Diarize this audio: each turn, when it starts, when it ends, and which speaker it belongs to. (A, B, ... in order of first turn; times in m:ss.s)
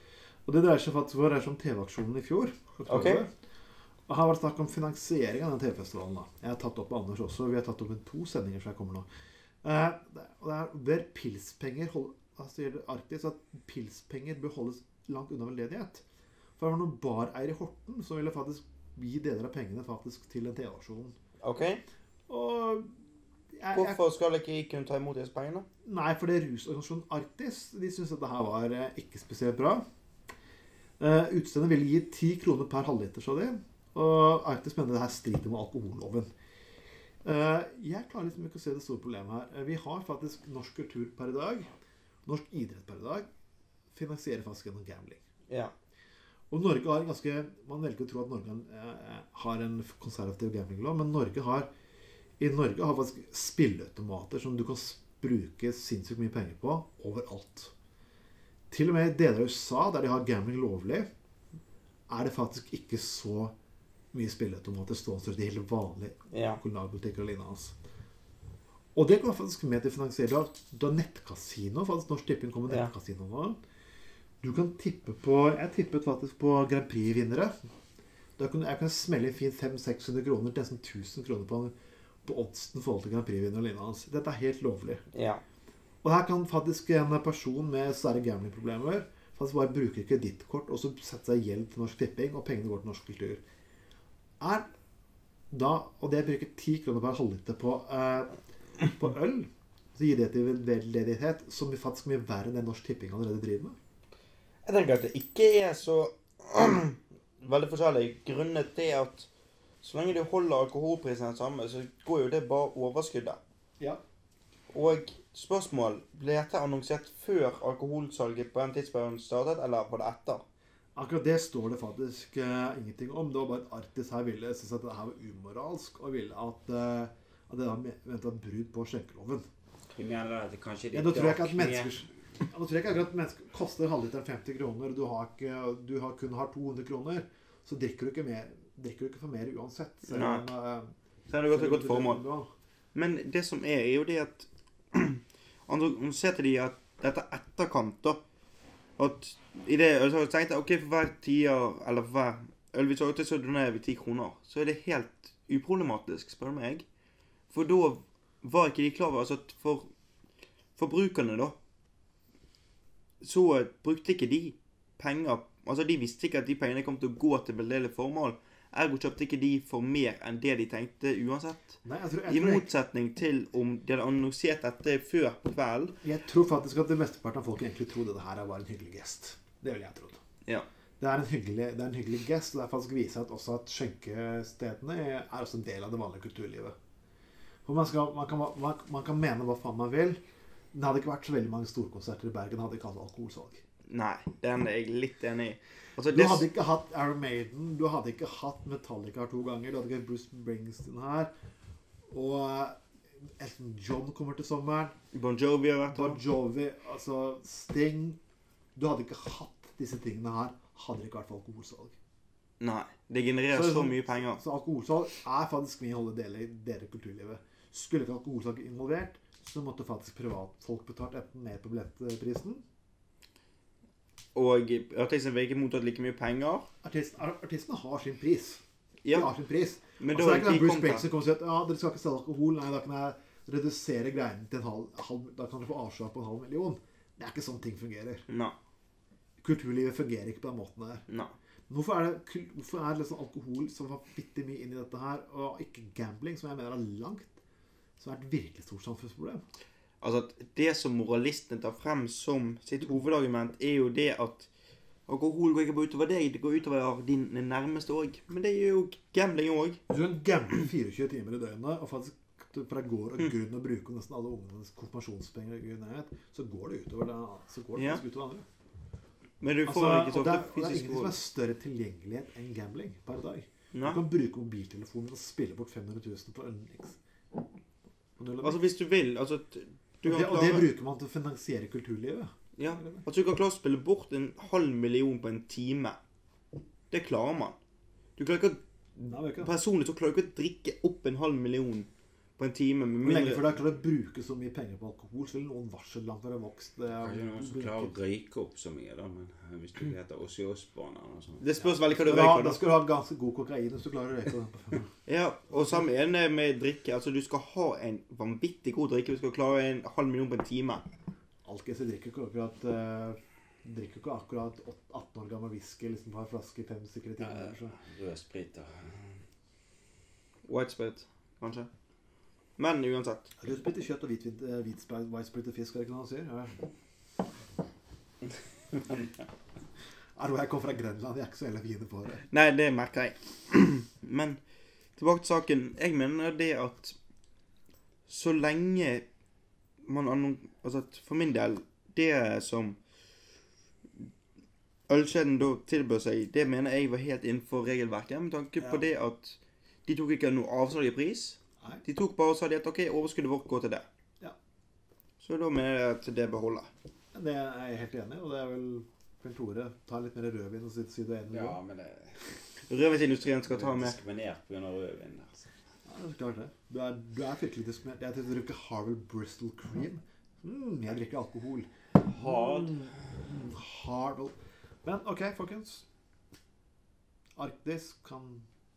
0:00.5-0:03.3 A
0:02.9-0:03.2 B
0:04.1-0:09.0 A
0:09.6-0:16.0 A
0:16.6-0:21.1 A
0:21.4-0:21.8 B
0:22.3-0:22.9 A
0:23.5-0:24.0 A
0:23.7-0:25.6 B
0:25.8-0:29.8 A
0:31.0-0:36.3 A
0:37.2-0:41.7 A
0:42.2-0:43.2 A
0:43.9-0:45.2 A
0:46.5-0:51.7 A
0:52.4-0:57.7 A
0:58.7-1:01.1 A
1:02.1-1:03.5 A
1:04.1-1:07.8 A
1:06.3-1:06.6 B
1:08.9-1:13.6 A
1:14.4-1:17.5 A
1:18.4-1:21.7 A
1:22.2-1:25.0 A
1:25.1-1:25.4 B
1:26.0-1:33.4 A
1:34.4-1:34.7 A
1:35.5-1:38.4 A
1:38.9-1:43.8 A
1:44.6-1:49.3 B
1:49.8-1:53.4 B
1:54.7-2:00.4 B
2:01.0-2:09.4 A
2:09.9-2:11.9 C
2:10.9-2:20.9 A
2:20.1-2:20.4 B
2:21.3-2:22.2 B
2:21.4-2:22.5 A
2:22.9-2:28.2 B
2:29.0-2:36.8 B
2:37.5-2:39.9 B
2:40.8-2:41.5 B
2:43.2-2:56.0 B
2:51.8-2:52.7 A
2:56.0-3:00.2 A
3:01.0-3:06.7 A
3:07.6-3:10.2 A
3:10.7-3:13.6 A
3:13.9-3:16.4 B
3:16.1-3:21.3 A
3:22.1-3:22.8 A
3:23.4-3:24.9 A
3:25.1-3:26.2 B
3:25.9-3:28.2 A
3:28.8-3:32.0 A
3:32.6-3:34.4 B
3:33.5-3:42.6 A
3:44.3-3:46.6 B
3:46.8-3:58.2 A
3:49.0-3:49.3 B
3:50.0-3:51.0 B
3:58.3-3:58.5 B
3:59.4-4:01.0 A
4:01.1-4:01.3 B
4:01.7-4:07.3 A
4:08.0-4:09.4 A
4:10.0-4:14.5 B
4:15.1-4:19.8 B
4:19.9-4:28.4 A
4:27.8-4:28.0 B
4:29.4-4:31.2 B
4:29.6-4:37.0 A
4:33.7-4:34.0 B
4:38.2-4:38.6 A
4:38.4-4:40.7 B
4:40.0-4:43.0 A
4:42.6-4:46.0 B
4:46.9-4:47.6 B
4:48.2-4:53.6 B
4:49.0-4:49.5 A
4:53.0-4:58.0 A
4:57.0-5:01.7 C
5:01.4-5:02.6 B
5:02.0-5:04.9 A
5:05.1-5:10.8 B
5:11.4-5:17.8 A
5:17.2-5:19.1 C
5:20.4-5:21.7 B
5:22.6-5:23.3 B
5:23.4-5:26.6 A
5:30.2-5:32.2 A
5:32.3-5:34.4 B
5:35.0-5:37.0 B
5:38.1-5:39.0 B
5:39.8-5:42.8 B
5:44.9-5:53.8 B
5:55.2-5:56.7 B
5:57.1-6:01.6 A
6:01.3-6:02.2 C
6:02.7-6:04.0 B
6:03.5-6:05.4 C
6:05.8-6:15.8 A
6:12.1-6:12.8 C
6:17.4-6:18.4 A